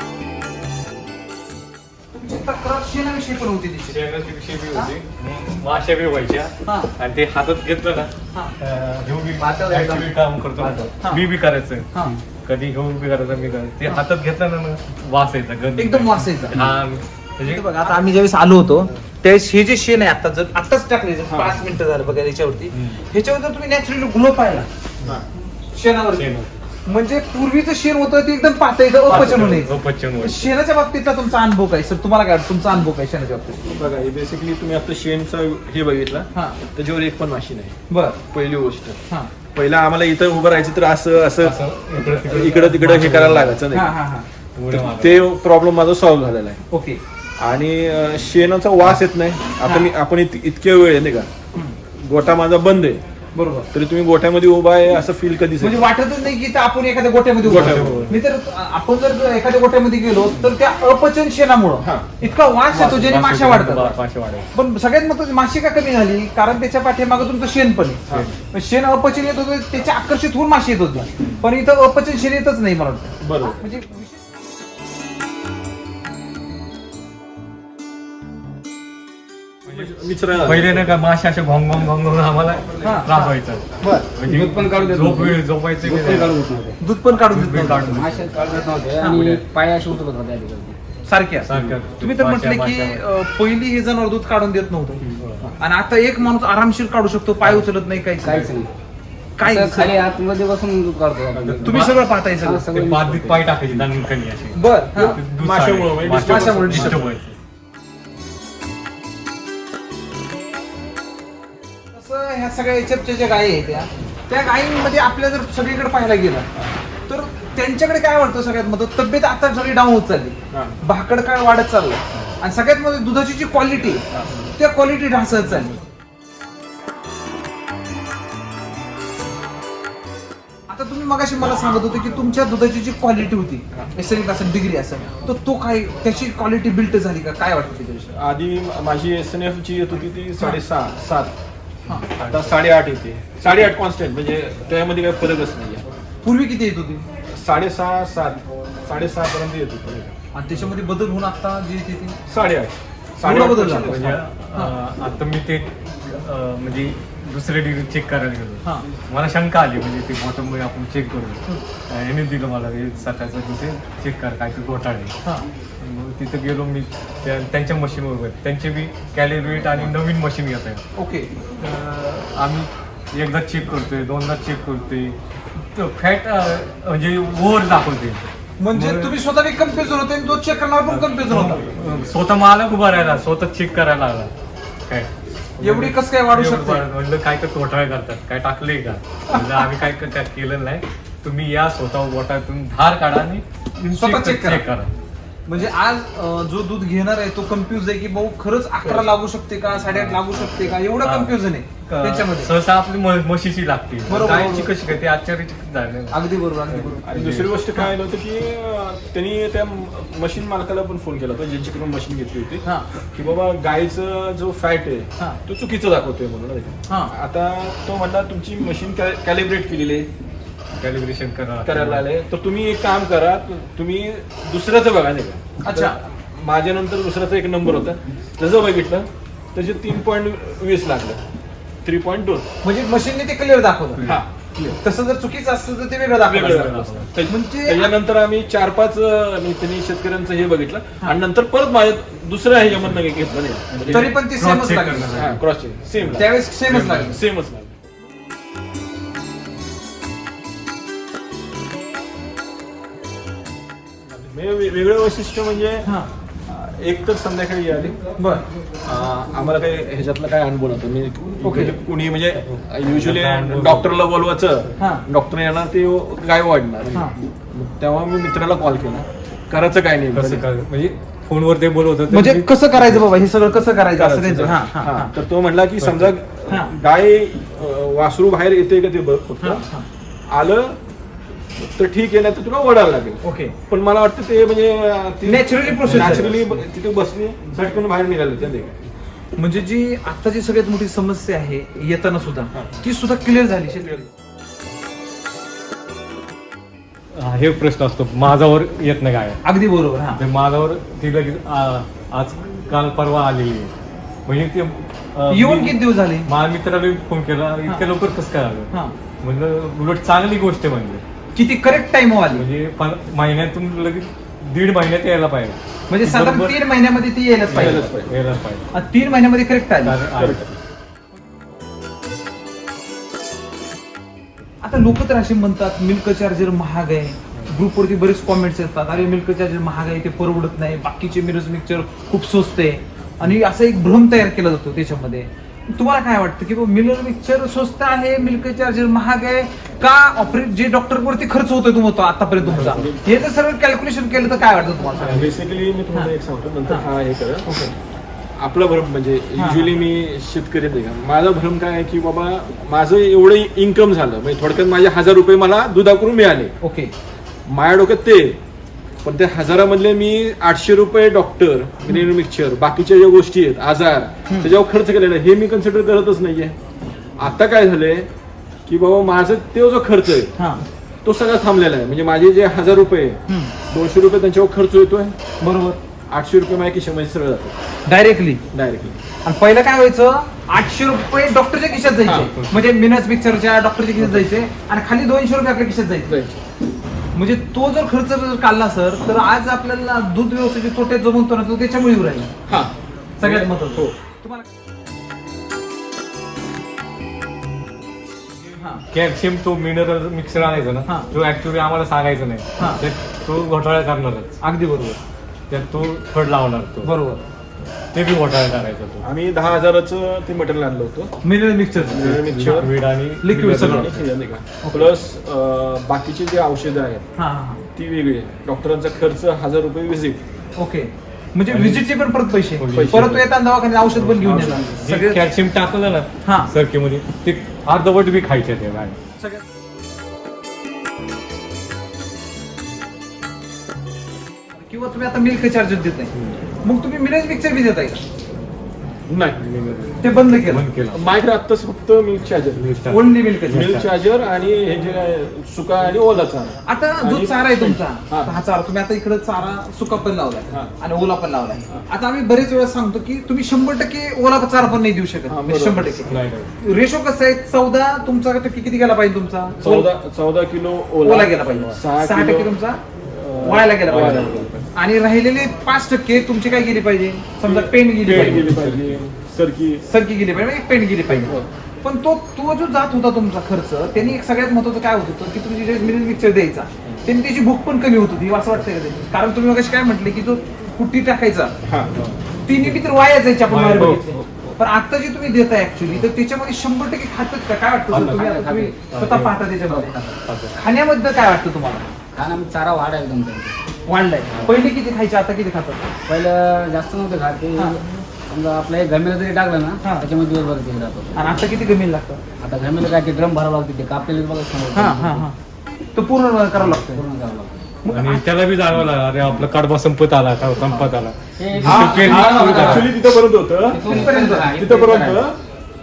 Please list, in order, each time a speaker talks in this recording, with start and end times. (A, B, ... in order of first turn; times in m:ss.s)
0:02.1-0:04.0 A
0:03.9-0:18.0 B
0:06.6-0:06.9 A
0:09.4-0:11.2 A
0:15.8-0:16.6 A
0:17.5-0:24.7 A
0:21.3-0:21.6 C
0:22.7-0:23.0 B
0:25.7-0:26.3 A
0:26.1-0:26.6 B
0:26.8-0:33.6 A
0:29.0-0:30.5 B
0:29.1-0:29.6 C
0:33.6-0:37.8 C
0:37.9-0:38.2 A
0:38.3-0:39.0 C
0:39.5-0:43.9 C
0:41.4-0:43.6 B
0:43.7-0:44.3 A
0:44.5-0:45.3 B
0:44.7-0:46.6 C
0:46.7-0:47.0 A
0:47.4-0:51.4 C
0:49.6-0:49.9 A
0:51.9-0:53.0 C
0:53.3-0:53.7 A
0:53.7-0:55.9 C
0:55.6-1:04.0 A
0:57.4-0:58.1 C
0:57.4-0:58.2 B
1:01.8-1:02.1 C
1:02.7-1:04.5 B
1:04.5-1:14.2 A
1:08.1-1:08.4 B
1:13.2-1:13.6 C
1:19.6-1:26.4 B
1:19.7-1:20.9 C
1:22.8-1:23.3 A
1:23.8-1:26.8 D
1:26.8-1:28.0 A
1:27.1-1:28.4 B
1:27.8-1:30.8 D
1:29.0-1:29.4 B
1:31.0-1:35.0 A
1:31.4-1:33.0 B
1:35.2-1:35.5 B
1:35.6-1:38.5 A
1:38.2-1:38.7 D
1:39.4-1:40.0 A
1:39.4-1:43.8 D
1:41.3-1:42.1 B
1:41.6-1:42.7 A
1:42.6-1:47.4 B
1:44.5-1:45.2 A
1:45.2-1:47.1 C
1:46.2-1:47.0 A
1:51.9-1:56.5 A
1:57.1-2:05.8 A
2:00.5-2:00.8 C
2:10.7-2:18.1 A
2:18.1-2:21.3 C
2:21.9-2:22.6 B
2:22.2-2:25.8 C
2:26.2-2:27.0 A
2:27.3-2:30.1 C
2:30.3-2:32.2 A
2:32.3-2:34.2 C
2:33.2-2:34.0 A
2:33.8-2:45.2 B
2:45.8-2:50.8 B
2:51.0-2:51.3 A
2:51.6-2:59.1 B
2:58.6-3:01.6 A
3:00.9-3:04.3 B
3:04.8-3:14.9 B
3:05.6-3:06.9 A
3:13.9-3:14.6 A
3:15.5-3:22.5 A
3:19.9-3:27.5 B
3:24.1-3:24.7 A
3:26.1-3:27.1 A
3:27.0-3:40.1 C
3:36.9-3:37.1 A
3:40.8-3:42.0 B
3:41.6-3:51.2 C
3:45.6-3:46.0 A
3:51.8-3:52.5 C
3:52.6-3:54.1 A
3:53.9-3:54.2 B
3:54.0-3:54.8 C
3:54.8-3:56.6 A
3:56.2-4:04.2 C
3:56.3-3:57.1 B
3:57.3-3:57.9 A
4:03.7-4:05.4 B
4:03.9-4:05.2 A
4:05.1-4:06.4 C
4:06.0-4:07.2 B
4:06.1-4:07.2 A
4:07.0-4:07.8 C
4:14.1-4:15.9 C
4:16.5-4:18.0 C
4:18.2-4:18.4 A
4:18.8-4:30.4 C
4:21.4-4:21.7 A
4:22.4-4:23.9 B
4:24.8-4:25.0 A
4:26.9-4:27.2 A
4:30.1-4:33.0 B
4:32.1-4:35.1 A
4:33.9-4:39.6 C
4:35.8-4:36.1 B
4:36.5-4:36.7 A
4:39.4-4:39.8 A
4:40.3-4:40.8 C
4:41.5-4:48.8 C
4:43.2-4:43.5 A
4:45.2-4:46.3 A
4:45.8-4:46.6 B
4:49.4-4:54.1 A
4:57.1-4:59.4 B
4:59.4-5:00.2 A
5:00.1-5:03.7 B
5:04.2-5:11.0 B
5:05.3-5:06.3 A
5:11.3-5:12.4 A
5:12.3-5:16.6 B
5:15.9-5:17.8 A
5:17.5-5:18.7 B
5:17.5-5:18.1 C
5:18.7-5:20.0 A
5:19.8-5:20.6 B
5:20.1-5:20.4 C
5:24.6-5:45.3 A
5:42.4-5:43.2 C
5:42.6-5:42.8 B
5:45.0-5:45.3 B
5:45.0-5:47.5 C
5:47.4-5:47.7 A
5:48.4-5:56.5 C
5:49.4-5:49.7 A
5:56.6-5:56.9 A
5:57.4-5:58.4 C
5:59.0-6:06.6 C
6:07.2-6:08.1 C
6:08.6-6:10.3 C
6:10.4-6:10.6 A
6:11.0-6:15.2 C
6:13.3-6:13.5 A
6:15.4-6:15.8 A
6:16.1-6:17.6 C
6:17.8-6:18.4 A
6:18.5-6:19.0 C
6:19.2-6:26.2 A
6:22.0-6:22.3 C
6:22.1-6:22.8 B
6:24.0-6:24.4 C
6:26.0-6:26.4 C
6:27.1-6:32.3 A
6:32.5-6:34.0 C
6:33.2-6:34.4 A
6:38.6-6:38.8 A
6:38.9-6:44.8 B
6:44.4-6:45.0 A
6:45.5-6:46.9 B
6:46.8-6:47.2 A
6:47.6-6:49.0 B
6:49.0-6:51.2 C
6:51.2-6:52.7 A
6:51.8-6:54.0 B
6:51.9-6:52.7 C
6:53.2-6:53.9 A
6:53.4-6:57.0 C
6:54.6-6:54.9 A
6:57.2-6:57.6 A
6:57.8-7:00.2 C
7:00.6-7:05.2 A
7:01.5-7:03.2 B
7:02.7-7:03.2 C
7:04.0-7:09.0 B
7:04.2-7:04.7 C
7:06.2-7:06.5 A
7:14.6-7:16.1 A
7:16.6-7:18.0 A
7:19.1-7:19.4 C
7:19.4-7:21.0 B
7:20.0-7:20.6 A
7:20.9-7:22.7 C
7:22.6-7:23.9 B
7:22.9-7:23.6 A
7:23.5-7:28.3 C
7:26.6-7:39.9 A
7:35.3-7:36.0 C
7:36.1-7:36.5 B
7:39.6-7:44.6 C
7:41.0-7:42.8 A
7:43.4-7:48.5 A
7:43.9-7:44.2 B
7:47.4-7:49.9 C
7:48.1-7:49.0 B
7:49.9-8:01.5 A
7:51.1-7:51.5 C
8:01.6-8:02.0 C
8:02.0-8:02.8 B
8:02.4-8:11.9 A
8:03.4-8:04.1 B
8:03.8-8:04.1 C
8:07.9-8:08.8 D
8:08.9-8:09.4 B
8:10.2-8:10.5 B
8:12.1-8:13.6 D
8:13.8-8:15.8 A
8:14.3-8:14.6 B
8:16.1-8:21.3 D
8:21.2-8:22.2 A
8:22.4-8:25.3 D
8:24.7-8:25.3 A
8:25.9-8:27.0 A
8:26.8-8:27.6 D
8:27.8-8:28.2 A
8:27.9-8:32.9 B
8:30.6-8:30.9 A
8:31.4-8:32.9 D
8:31.6-8:35.4 C
8:32.0-8:32.8 A
8:33.7-8:35.3 D
8:33.8-8:34.5 A